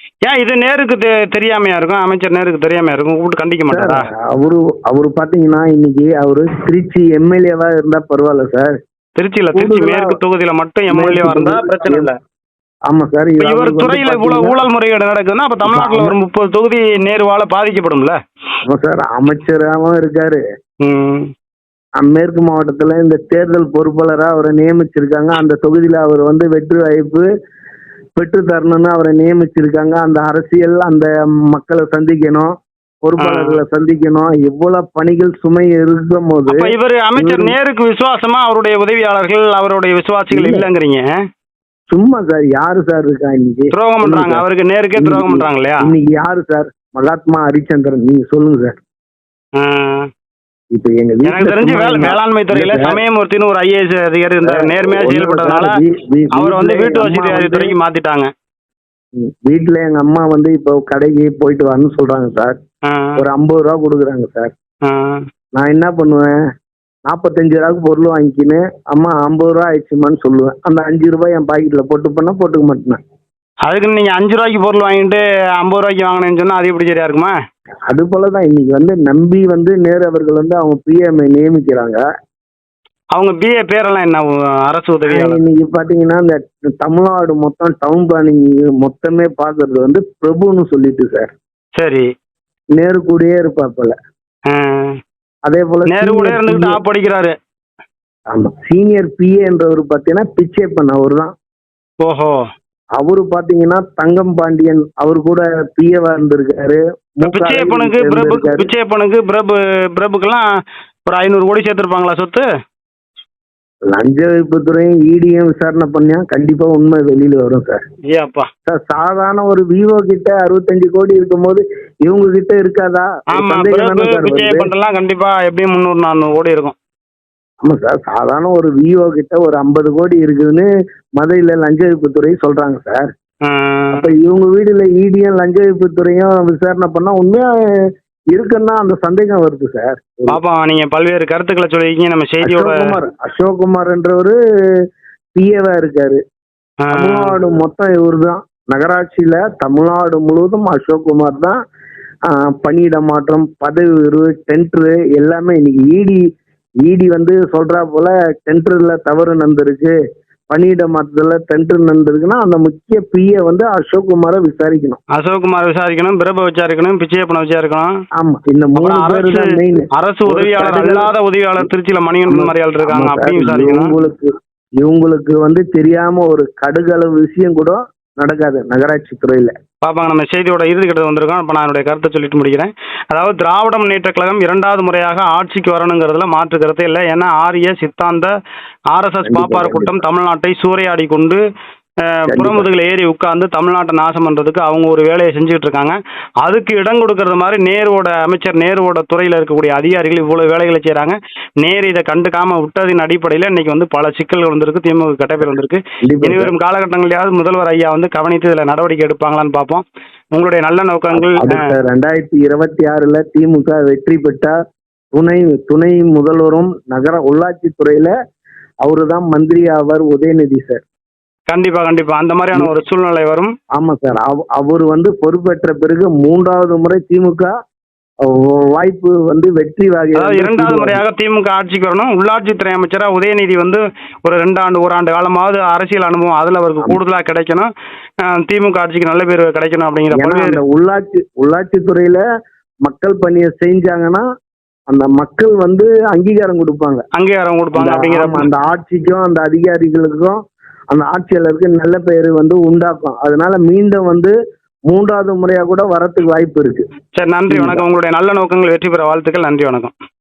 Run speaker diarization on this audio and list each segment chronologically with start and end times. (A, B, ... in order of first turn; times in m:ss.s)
0:00.2-0:04.0 A
0:03.7-0:08.8 B
0:09.2-0:12.1 A
0:09.5-0:10.2 B
0:10.9-0:12.1 B
0:12.9-0:14.6 B
0:13.4-0:18.2 A
0:15.6-0:16.2 B
0:18.7-0:20.4 B
0:20.8-0:21.3 A
0:22.0-0:27.3 B
0:28.2-0:32.5 B
0:33.0-0:37.5 B
0:33.2-0:33.6 A
0:36.5-0:41.0 A
0:40.3-0:40.7 B
0:41.9-0:44.4 B
0:43.7-0:45.9 A
0:45.0-0:48.8 B
0:49.6-0:50.1 A
0:50.7-0:53.0 B
0:51.3-0:55.7 A
0:54.5-0:57.7 B
0:56.3-0:58.3 A
0:59.2-1:02.6 B
1:02.8-1:03.2 A
1:03.2-1:04.5 B
1:04.8-1:05.2 A
1:05.5-1:06.3 B
1:07.1-1:13.0 B
1:13.6-1:17.3 A
1:17.9-1:22.0 B
1:23.1-1:25.4 A
1:25.1-1:31.3 B
1:31.8-1:32.0 A
1:32.7-1:33.9 B
1:34.5-1:34.9 A
1:35.4-1:36.8 B
1:35.9-1:37.3 A
1:38.3-1:41.3 B
1:42.0-1:42.3 A
1:43.0-1:48.7 B
1:47.2-1:50.4 A
1:51.0-1:52.4 A
1:53.9-1:57.8 B
1:58.1-1:58.5 A
1:58.7-2:04.7 B
2:03.3-2:06.7 A
2:07.6-2:13.1 B
2:13.4-2:14.1 A
2:13.9-2:17.4 B
2:18.3-2:20.4 B
2:20.3-2:23.0 A
2:22.4-2:24.4 B
2:25.3-2:26.2 B
2:26.8-2:27.3 A
2:26.9-2:31.6 B
2:32.3-2:36.2 B
2:36.8-2:39.9 B
2:40.5-2:45.0 B
2:45.1-2:47.9 A
2:48.2-2:51.1 B
2:48.8-2:49.4 A
2:49.9-2:53.9 A
2:52.3-2:54.3 B
2:54.8-2:59.5 B
2:59.8-3:08.3 A
3:08.9-3:11.4 A
3:09.2-3:10.0 B
3:12.0-3:29.8 A
3:12.3-3:12.7 B
3:26.0-3:26.5 B
3:30.3-3:31.6 A
3:31.1-3:34.5 B
3:35.1-3:38.1 B
3:38.8-3:40.8 B
3:41.5-3:43.5 A
3:43.8-3:47.5 B
3:48.3-3:51.0 B
3:50.2-3:57.7 A
3:58.2-4:00.6 A
4:00.1-4:02.2 B
4:02.8-4:04.2 B
4:04.9-4:07.0 B
4:07.1-4:08.5 A
4:07.7-4:10.4 B
4:10.9-4:14.3 B
4:14.9-4:16.8 B
4:17.1-4:19.9 A
4:17.5-4:17.8 B